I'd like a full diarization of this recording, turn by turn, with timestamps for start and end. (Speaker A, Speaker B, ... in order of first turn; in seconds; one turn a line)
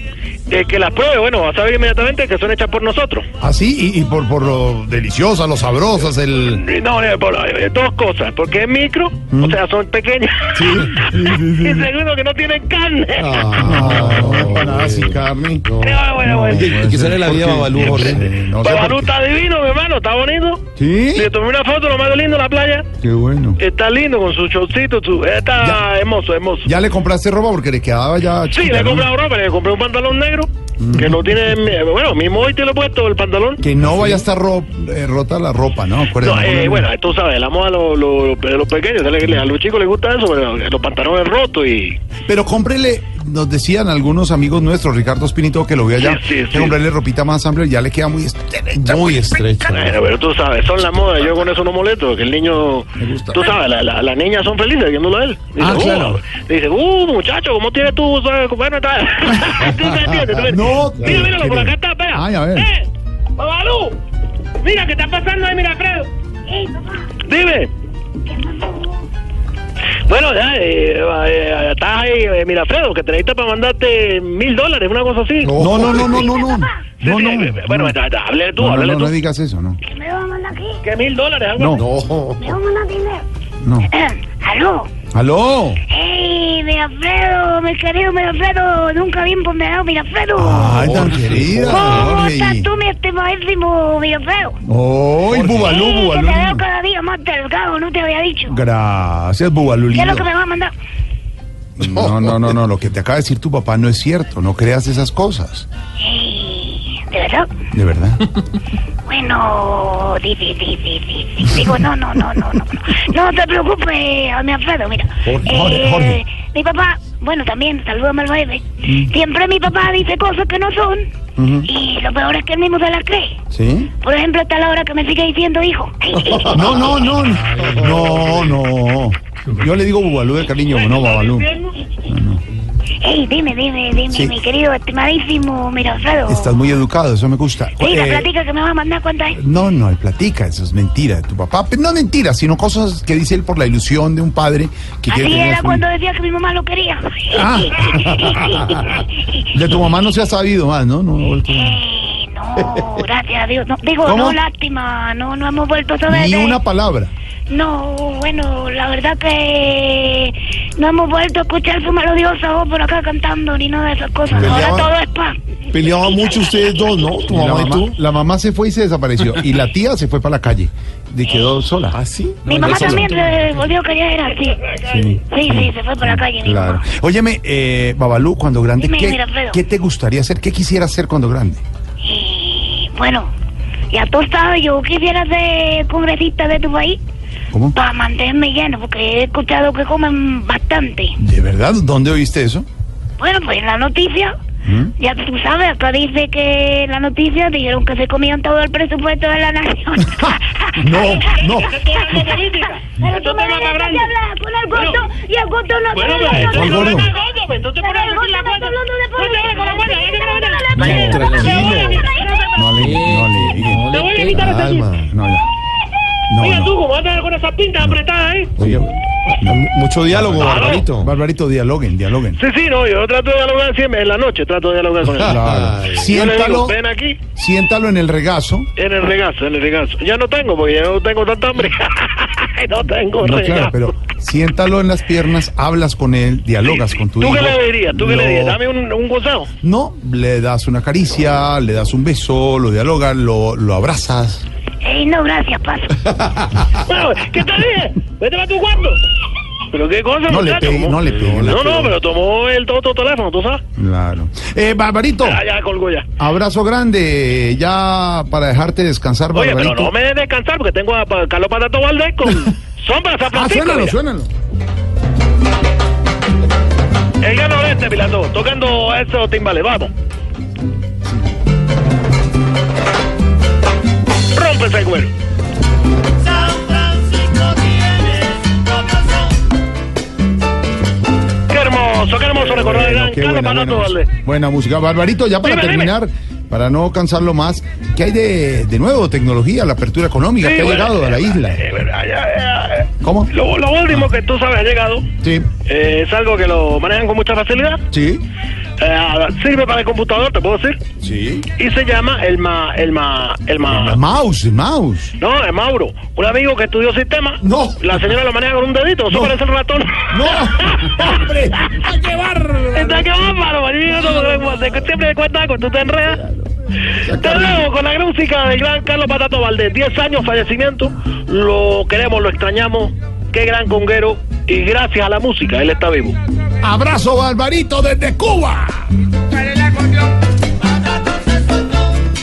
Speaker A: 0.5-3.3
Speaker B: 3.4-6.6
Speaker A: 6.4-11.1
Speaker B: 9.3-9.6
Speaker B: 10.6-11.9
Speaker A: 11.6-13.5
Speaker C: 13.2-18.3
Speaker B: 13.6-15.7
Speaker A: 15.8-16.8
Speaker B: 16.2-19.1
Speaker A: 18.6-22.9
Speaker B: 20.8-21.3
Speaker B: 23.0-23.6
Speaker A: 23.6-26.7
Speaker B: 26.6-29.1
Speaker A: 28.5-33.6
Speaker B: 30.8-31.2
Speaker B: 33.6-36.9
Speaker A: 36.2-42.0
Speaker B: 42.3-49.3
Speaker A: 46.0-46.8
Speaker C: 48.8-50.0
Speaker A: 49.6-62.9
Speaker B: 53.0-53.5
Speaker B: 55.6-56.2
Speaker B: 60.4-62.7
Speaker A: 63.4-64.0
Speaker A: 64.6-66.1
Speaker D: 66.5-67.1
Speaker A: 67.2-67.7
Speaker D: 68.2-69.1
Speaker A: 70.1-75.5
Speaker C: 75.4-76.3
Speaker B: 75.6-78.0
Speaker D: 76.2-76.8
Speaker A: 77.0-79.1
Speaker B: 78.6-79.8
Speaker D: 79.8-80.8
Speaker A: 80.8-81.8
Speaker B: 81.6-81.9
Speaker C: 81.7-82.6
Speaker D: 82.4-83.2
Speaker B: 83.6-83.9
Speaker D: 83.9-84.9
Speaker B: 85.1-85.8
Speaker D: 85.9-90.9
Speaker B: 90.4-92.7
Speaker C: 90.6-92.2
Speaker D: 91.7-94.6
Speaker B: 94.7-96.7
Speaker C: 95.2-95.8
Speaker D: 95.5-98.6
Speaker B: 98.5-100.3
Speaker D: 99.9-100.7
Speaker B: 101.8-105.7
Speaker C: 101.8-102.5
Speaker D: 106.0-107.5
Speaker B: 107.7-108.2
Speaker D: 109.1-121.1
Speaker B: 115.2-116.2
Speaker B: 118.8-119.1
Speaker B: 121.4-121.7
Speaker D: 121.7-123.4
Speaker B: 123.5-123.9
Speaker D: 124.0-126.6
Speaker C: 126.3-128.6
Speaker B: 126.5-131.5
Speaker A: 130.7-131.8
Speaker B: 132.1-132.4
Speaker D: 133.0-136.6
Speaker B: 134.1-134.4
Speaker B: 136.3-138.3
Speaker D: 137.8-139.4
Speaker B: 139.3-145.8
Speaker D: 145.1-148.9
Speaker B: 147.3-148.8
Speaker B: 149.5-151.8
Speaker D: 151.6-156.6
Speaker B: 154.0-154.4
Speaker B: 156.1-157.1
Speaker D: 157.5-165.4
Speaker C: 164.3-164.9
Speaker B: 164.3-164.9
Speaker C: 165.7-168.0
Speaker B: 167.3-172.0
Speaker D: 171.2-171.6
Speaker C: 171.9-173.2
Speaker D: 172.4-174.7
Speaker B: 172.6-173.1
Speaker B: 174.8-181.6
Speaker D: 175.3-176.8
Speaker D: 178.8-179.6
Speaker D: 182.0-183.3
Speaker D: 183.9-187.0
Speaker D: 187.7-191.2
Speaker B: 191.2-192.7
Speaker D: 193.2-194.3
Speaker B: 194.7-194.9
Speaker D: 195.0-200.9
Speaker B: 200.8-201.8
Speaker A: 201.2-204.1
Speaker D: 202.1-202.4
Speaker D: 202.9-207.1
Speaker A: 204.7-205.1
Speaker A: 205.9-212.7
Speaker B: 206.3-207.1
Speaker D: 207.8-212.7
Speaker B: 210.8-211.8
Speaker C: 210.8-212.1
Speaker B: 212.5-214.0
Speaker C: 212.8-215.1
Speaker A: 213.8-214.9
Speaker B: 215.1-215.5
Speaker B: 216.3-216.7
Speaker A: 216.4-218.6
Speaker B: 218.6-218.9
Speaker C: 218.6-218.9
Speaker C: 219.4-221.1
Speaker B: 220.1-222.4
Speaker A: 220.4-220.9
Speaker A: 222.4-225.4
Speaker C: 225.1-226.2
Speaker B: 225.2-226.8
Speaker A: 226.1-227.2
Speaker B: 227.3-228.7
Speaker A: 228.8-233.8
Speaker B: 233.2-238.6
Speaker A: 236.6-239.5
Speaker B: 239.6-244.4
Speaker D: 244.8-246.1
Speaker A: 246.8-249.0
Speaker A: 249.7-253.6
Speaker B: 250.3-251.9
Speaker C: 251.1-251.6
Speaker B: 253.8-255.4
Speaker A: 255.2-256.1
Speaker B: 256.2-259.9
Speaker A: 259.3-264.0
Speaker B: 263.3-264.3
Speaker A: 267.2-269.9
Speaker A: 274.3-275.1
Speaker E: 276.2-279.3
Speaker A: 281.5-284.1
Speaker B: 282.4-291.6
Speaker A: 285.4-285.9
Speaker A: 290.4-295.1
Speaker B: 293.0-293.3
Speaker B: 295.2-295.5
Speaker A: 295.7-297.8
Speaker B: 297.9-298.2
Speaker A: 298.8-300.8
Speaker B: 301.0-301.5
Speaker A: 301.6-304.0
Speaker B: 303.6-305.1
Speaker A: 305.2-311.2
Speaker B: 307.4-308.0
Speaker B: 309.1-309.4
Speaker B: 310.1-313.1
Speaker A: 312.7-316.2
Speaker A: 317.1-326.2
Speaker B: 317.2-317.6
Speaker B: 326.6-328.9
Speaker B: 329.6-330.1